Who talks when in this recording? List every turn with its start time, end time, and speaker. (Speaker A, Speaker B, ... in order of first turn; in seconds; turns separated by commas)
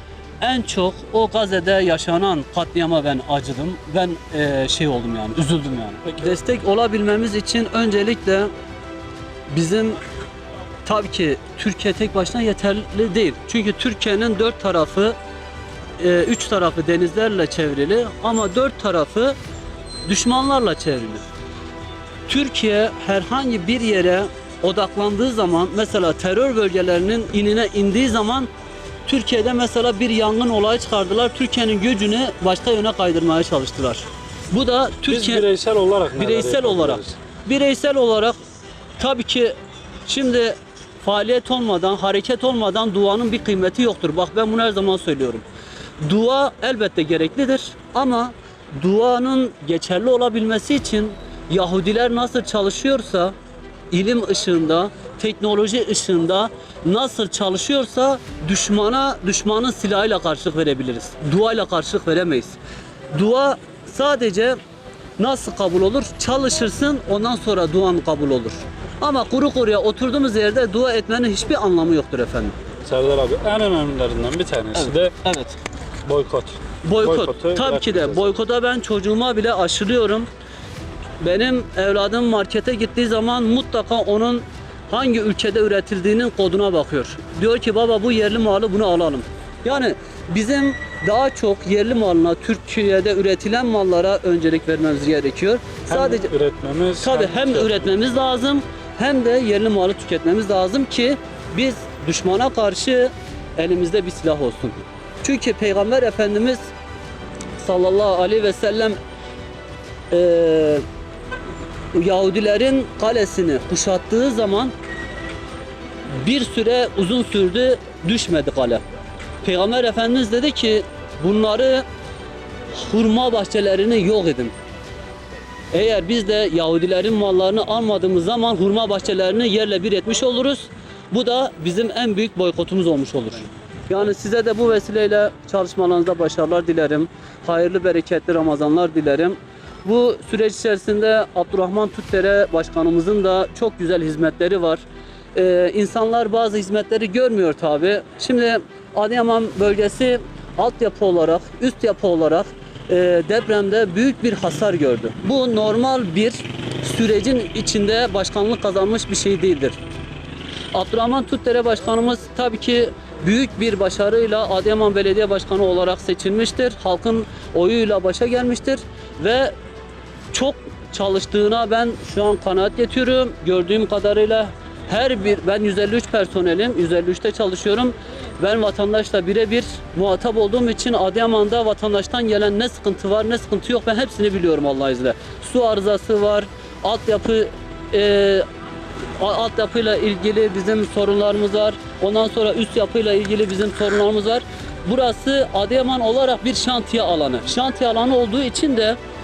Speaker A: 0.4-8.5, Speaker B: 6.0-6.3, Speaker A: 9.5-10.0, Speaker A: 10.8-15.2, Speaker A: 16.0-19.4, Speaker A: 20.1-21.2, Speaker A: 22.3-28.5, Speaker A: 29.1-35.5, Speaker B: 35.1-37.2, Speaker A: 36.1-38.4, Speaker A: 39.0-39.5, Speaker A: 40.1-45.4, Speaker A: 46.0-53.3, Speaker A: 53.9-62.6, Speaker A: 63.1-64.6, Speaker A: 65.2-72.5, Speaker B: 72.8-75.1, Speaker A: 74.8-75.5, Speaker B: 76.0-78.4, Speaker A: 76.8-80.3, Speaker A: 81.2-96.3, Speaker B: 95.9-97.8, Speaker A: 97.0-106.7, Speaker A: 107.6-109.0, Speaker A: 110.1-110.8, Speaker A: 111.9-114.7, Speaker A: 116.2-118.8, Speaker A: 119.4-121.8, Speaker A: 122.7-124.5, Speaker A: 125.7-144.8, Speaker A: 145.3-159.8, Speaker A: 160.7-169.5, Speaker A: 170.3-188.4, Speaker A: 189.2-199.0